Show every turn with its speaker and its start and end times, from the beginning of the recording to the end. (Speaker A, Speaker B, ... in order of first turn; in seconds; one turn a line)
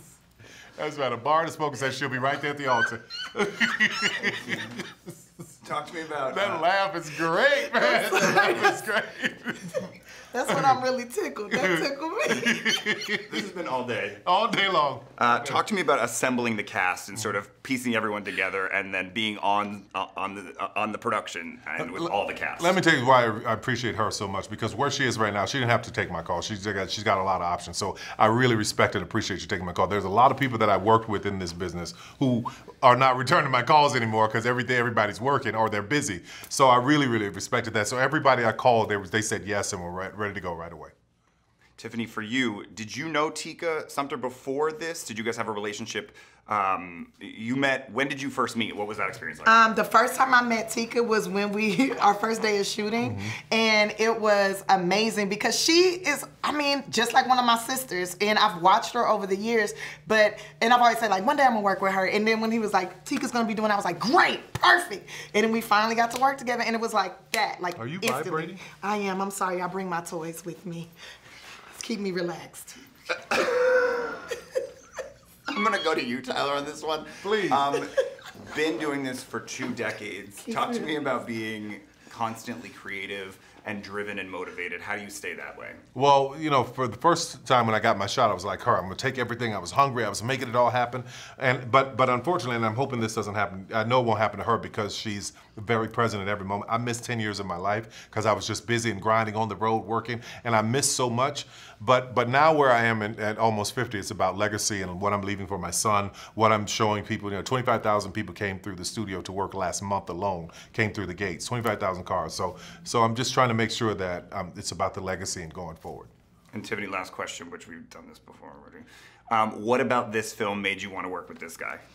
Speaker A: 0.8-4.9
Speaker B: 5.6-6.6
Speaker A: 6.3-9.9
Speaker C: 7.7-8.7
Speaker C: 10.3-12.9
Speaker A: 10.5-10.8
Speaker A: 11.5-13.5
Speaker B: 13.3-14.2
Speaker A: 14.2-15.6
Speaker B: 15.2-22.8
Speaker A: 21.8-40.9
Speaker B: 41.8-49.6
Speaker C: 49.5-70.9
Speaker A: 53.0-53.4
Speaker A: 67.8-68.6
Speaker C: 71.8-74.4
Speaker B: 75.5-85.8
Speaker A: 77.2-77.6
Speaker C: 80.5-80.9
Speaker A: 86.0-116.1
Speaker B: 116.5-121.8